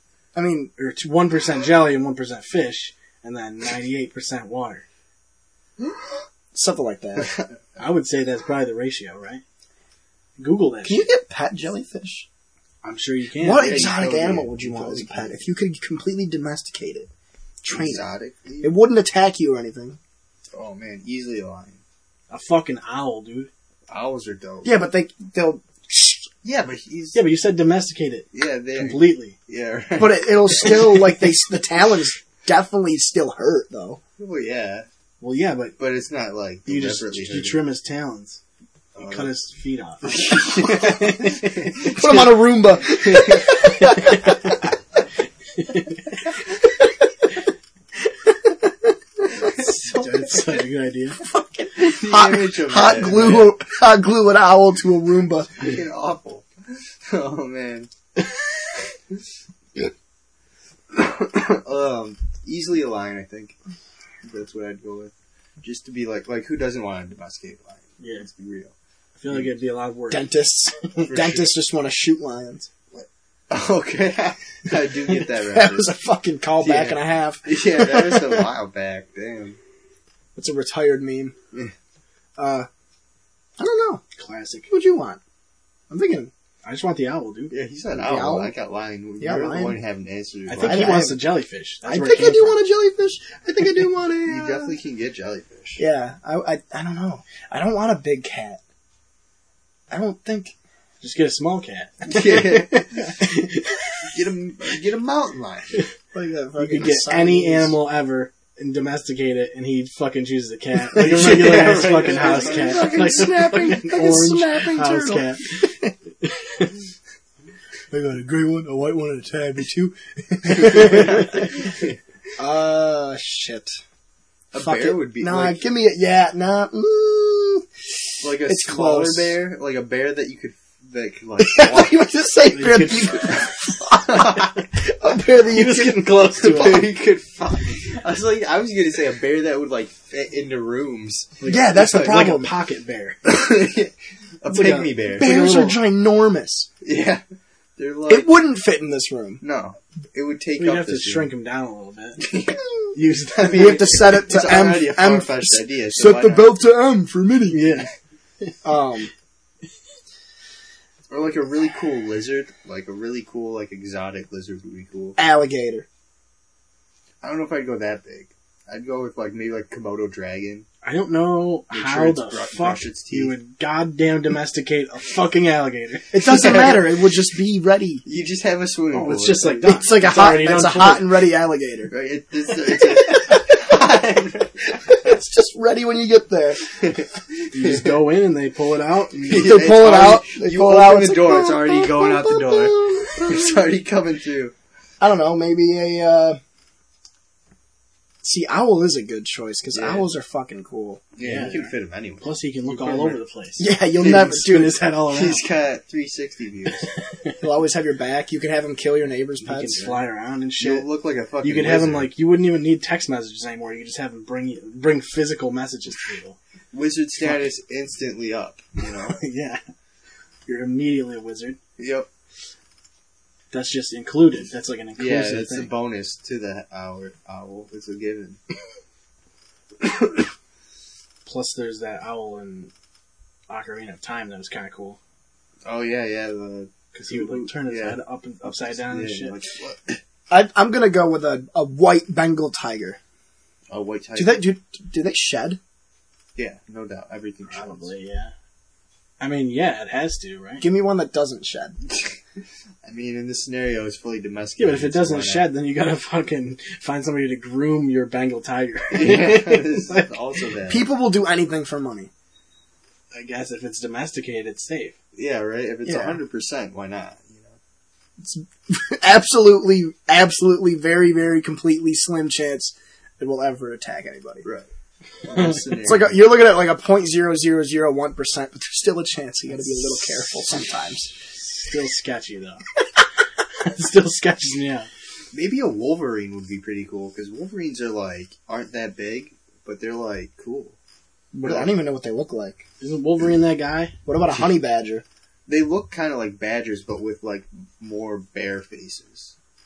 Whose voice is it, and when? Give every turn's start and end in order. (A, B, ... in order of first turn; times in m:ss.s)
0:00.3-0:00.7 A
0:00.8-0:04.8 B
0:06.5-0:07.4 A
0:07.2-0:07.5 C
0:07.8-0:09.4 B
0:10.4-0:11.0 B
0:10.8-0:12.2 A
0:12.8-0:14.0 B
0:13.4-0:17.1 A
0:13.6-0:15.4 C
0:17.6-0:18.1 A
0:17.7-0:18.7 C
0:18.6-0:20.0 A
0:20.5-0:21.8 C
0:22.3-0:23.5 B
0:23.9-0:24.8 C
0:24.6-0:26.3 A
0:26.4-0:27.2 C
0:27.1-0:29.4 B
0:28.3-0:31.1 C
0:30.0-0:34.0 A
0:34.2-0:34.8 C
0:35.2-0:35.8 B
0:35.8-0:37.6 C
0:36.6-0:38.4 B
0:38.9-0:39.3 C
0:39.0-0:41.5 B
0:40.0-0:43.7 C
0:41.8-0:44.6 A
0:48.4-0:49.5 A
0:49.3-0:50.6 C
0:49.5-0:51.2 B
0:51.2-0:55.7 A
0:51.8-0:53.6 C
0:55.6-0:57.9 C
1:00.9-1:03.6 C
1:04.2-1:08.7 C
1:08.0-1:08.3 B
1:09.2-1:10.3 B
1:10.1-1:12.7 A
1:11.0-1:11.5 C
1:12.9-1:15.9 C
1:15.1-1:18.5 A
1:16.6-1:17.0 B
1:17.4-1:19.6 C
1:20.4-1:21.4 A
1:22.4-1:22.7 A
1:23.6-1:24.0 A
1:24.2-1:24.7 B
1:24.7-1:25.2 A
1:25.9-1:26.3 A
1:26.6-1:27.5 B
1:27.5-1:31.0 C
1:27.9-1:28.5 A
1:29.2-1:29.8 A
1:30.5-1:32.6 B
1:30.6-1:31.2 A
1:31.8-1:34.8 A
1:34.2-1:35.8 C
1:35.8-1:38.6 A
1:39.9-1:40.5 A
1:41.0-1:44.0 B
1:42.1-1:43.1 C
1:42.2-1:43.3 A
1:44.0-1:45.8 C
1:46.1-1:47.8 A
1:46.6-1:55.7 B
1:50.9-1:53.8 C
1:51.2-1:55.9 A
1:56.2-1:56.7 B
1:57.9-2:01.6 A
2:00.5-2:02.0 C
2:02.4-2:03.8 A
2:04.5-2:05.6 C
2:04.6-2:07.6 A
2:08.2-2:09.4 A
2:08.2-2:12.0 C
2:11.4-2:16.5 A
2:12.5-2:13.4 B
2:14.0-2:14.5 C
2:15.4-2:16.9 B
2:16.4-2:22.4 C
2:21.4-2:23.2 B
2:21.4-2:22.5 A
2:23.2-2:25.4 C
2:24.5-2:25.8 B
2:25.1-2:26.7 A
2:26.8-2:27.2 C
2:27.8-2:28.4 C
2:28.1-2:29.4 A
2:29.4-2:31.3 C
2:30.6-2:32.4 B
2:32.2-2:32.6 C
2:32.9-2:34.2 B
2:33.3-2:36.6 C
2:33.5-2:37.7 A
2:37.5-2:37.9 B
2:38.6-2:39.1 A
2:41.1-2:45.2 C
2:45.2-2:45.8 A
2:47.2-2:50.6 C
2:50.8-2:56.8 B
2:51.7-2:53.3 C
2:56.1-2:58.0 A
2:58.0-2:59.7 C
2:58.9-3:01.2 B
2:59.6-3:01.9 A
3:01.9-3:05.1 C
3:02.8-3:03.5 A
3:04.8-3:06.6 A
3:06.7-3:07.9 C
3:07.5-3:09.5 B
3:09.2-3:14.5 C
3:09.3-3:13.6 A
3:15.0-3:16.4 A
3:18.2-3:21.0 A
3:19.7-3:20.1 C
3:21.2-3:23.2 C
3:21.2-3:25.4 B
3:23.6-3:24.8 A
3:25.1-3:26.9 C
3:27.4-3:30.0 A
3:29.4-3:30.9 B
3:30.6-3:32.1 C
3:31.4-3:36.4 B
3:36.7-3:39.2 C
3:37.2-3:37.4 B
3:38.8-3:39.6 B
3:40.4-3:41.6 B
3:41.8-3:42.1 C
3:43.5-3:45.7 B
3:45.0-3:48.4 C
3:51.2-3:52.7 B
3:53.5-3:55.0 B
3:55.6-4:00.0 C
3:56.9-3:59.4 B
4:00.3-4:03.0 A
4:03.7-4:04.4 C
4:04.2-4:05.6 A
4:06.4-4:07.9 C
4:07.5-4:08.3 B
4:09.2-4:10.6 B
4:10.6-4:11.8 A
4:11.9-4:12.2 C
4:12.8-4:15.5 C
4:14.6-4:20.1 B
4:18.9-4:20.9 C
4:20.7-4:22.1 A
4:23.1-4:25.0 B
4:25.1-4:27.6 C
4:25.8-4:26.2 A
4:28.2-4:34.4 A
4:35.2-4:36.2 C
4:35.4-4:41.1 A
4:41.3-4:42.6 B
4:43.6-4:44.9 B
4:45.3-4:50.7 C
4:51.3-4:52.6 A
4:52.8-4:54.0 B
4:54.0-4:55.0 A
4:55.5-4:59.3 C